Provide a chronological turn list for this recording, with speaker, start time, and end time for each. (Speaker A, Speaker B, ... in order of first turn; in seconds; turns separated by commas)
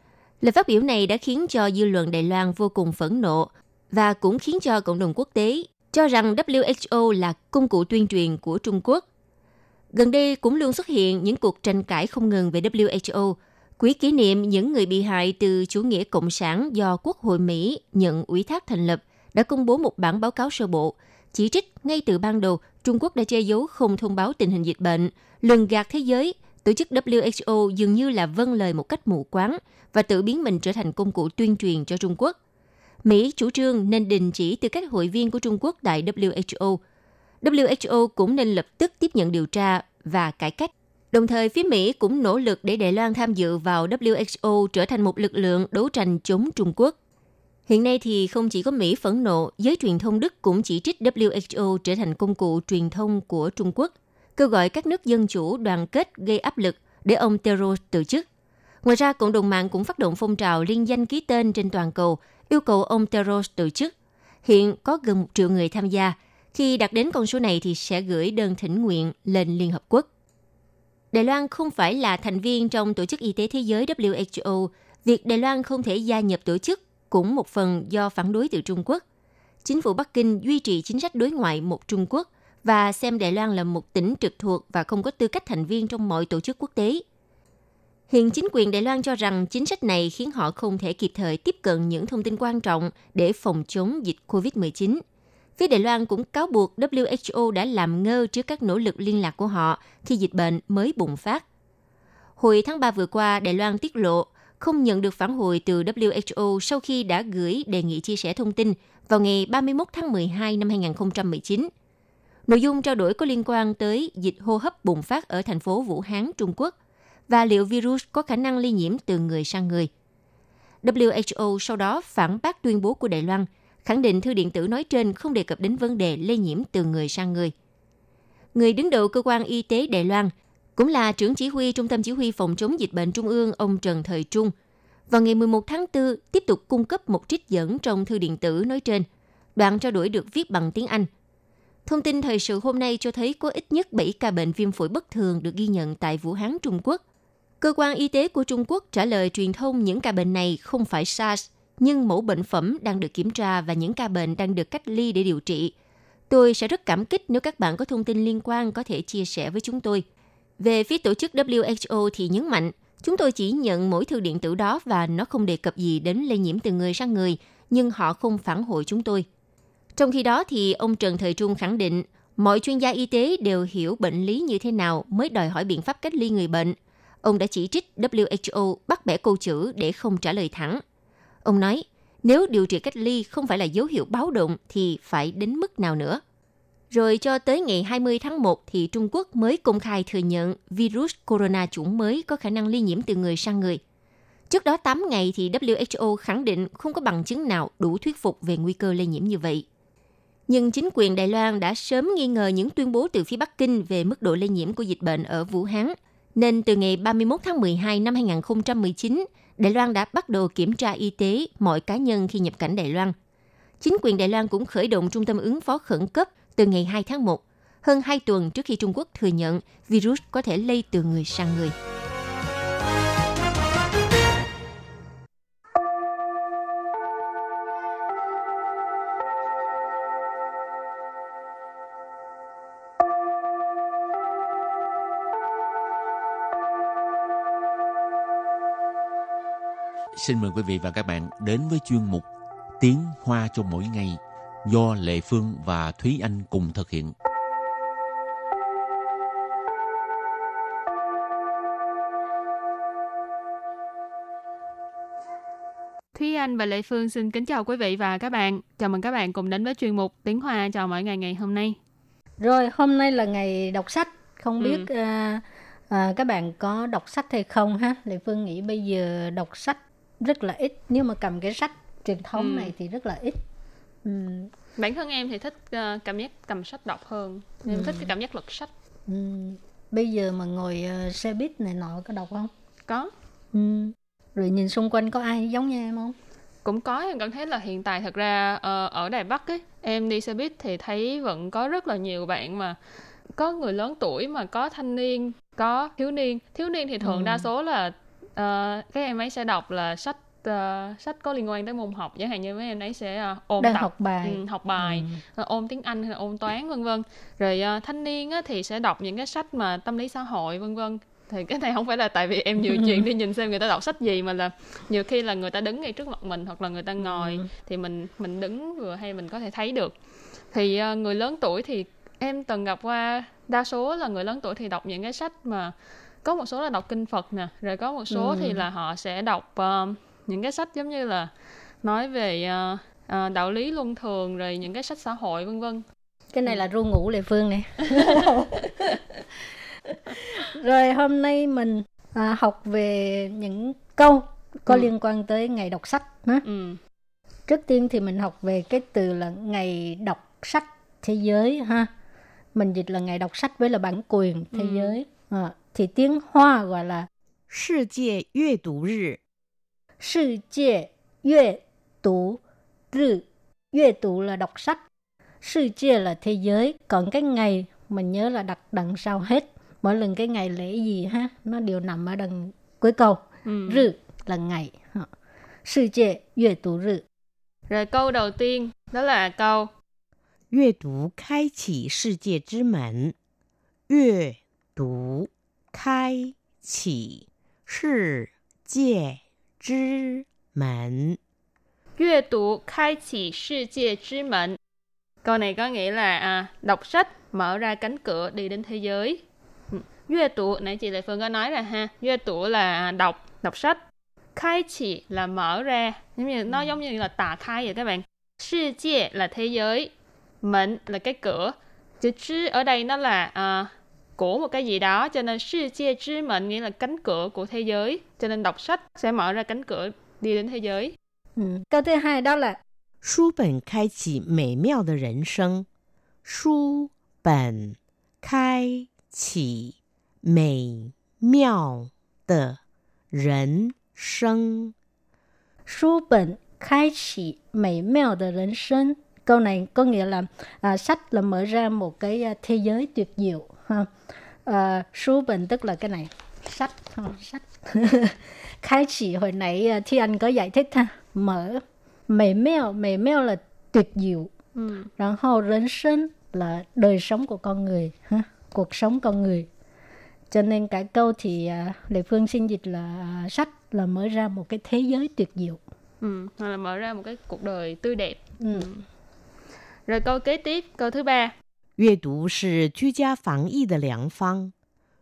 Speaker A: 0.4-9.0, Speaker A: 9.9-32.4, Speaker A: 33.0-36.8, Speaker A: 37.4-47.0, Speaker A: 47.7-58.2, Speaker A: 58.8-63.9, Speaker A: 64.4-70.1, Speaker A: 71.1-79.0, Speaker A: 79.6-87.0, Speaker A: 88.1-95.0, Speaker A: 95.6-101.4, Speaker A: 102.4-111.7, Speaker A: 112.5-116.7, Speaker A: 117.3-119.9, Speaker A: 120.8-127.5, Speaker A: 128.5-134.5, Speaker A: 135.1-141.1, Speaker A: 141.8-147.0, Speaker A: 147.6-155.7, Speaker A: 156.3-160.0, Speaker A: 160.6-169.2, Speaker A: 169.9-180.8, Speaker A: 181.4-186.2, Speaker A: 186.9-193.8, Speaker A: 194.5-199.6, Speaker A: 200.5-213.1, Speaker A: 213.8-221.7, Speaker B: 240.2-242.3, Speaker B: 242.8-247.1, Speaker C: 256.1-261.8, Speaker D: 262.4-273.4, Speaker C: 264.6-264.9, Speaker C: 272.4-272.7, Speaker D: 274.0-274.5, Speaker C: 274.8-278.7, Speaker D: 277.7-278.1, Speaker D: 279.1-282.5, Speaker D: 283.5-286.1, Speaker C: 286.6-292.8, Speaker C: 293.3-319.9, Speaker D: 297.0-297.5, Speaker D: 303.6-305.2, Speaker D: 312.7-313.0, Speaker D: 317.0-317.4, Speaker C: 320.5-331.3, Speaker D: 328.1-328.6, Speaker C: 331.8-335.8, Speaker D: 336.3-339.0, Speaker D: 339.9-346.4, Speaker C: 346.4-346.8, Speaker D: 347.5-351.9, Speaker D: 352.5-357.1, Speaker C: 354.5-354.9, Speaker E: 357.5-359.2, Speaker D: 360.0-362.4, Speaker D: 362.9-364.8, Speaker D: 365.4-375.1, Speaker C: 373.4-373.9, Speaker D: 375.6-377.0, Speaker C: 377.7-379.7, Speaker E: 380.5-383.1, Speaker E: 383.9-391.2, Speaker C: 392.0-394.6, Speaker C: 395.2-403.8, Speaker C: 404.3-409.9, Speaker C: 410.4-420.9, Speaker D: 421.4-422.6, Speaker E: 423.0-425.7, Speaker E: 426.2-432.6, Speaker E: 433.1-434.7, Speaker D: 435.7-443.9, Speaker D: 444.4-454.3, Speaker C: 454.6-454.9, Speaker D: 455.0-459.5, Speaker D: 460.3-465.6, Speaker C: 466.0-468.8, Speaker D: 468.4-468.7, Speaker C: 469.9-471.3, Speaker E: 471.8-474.5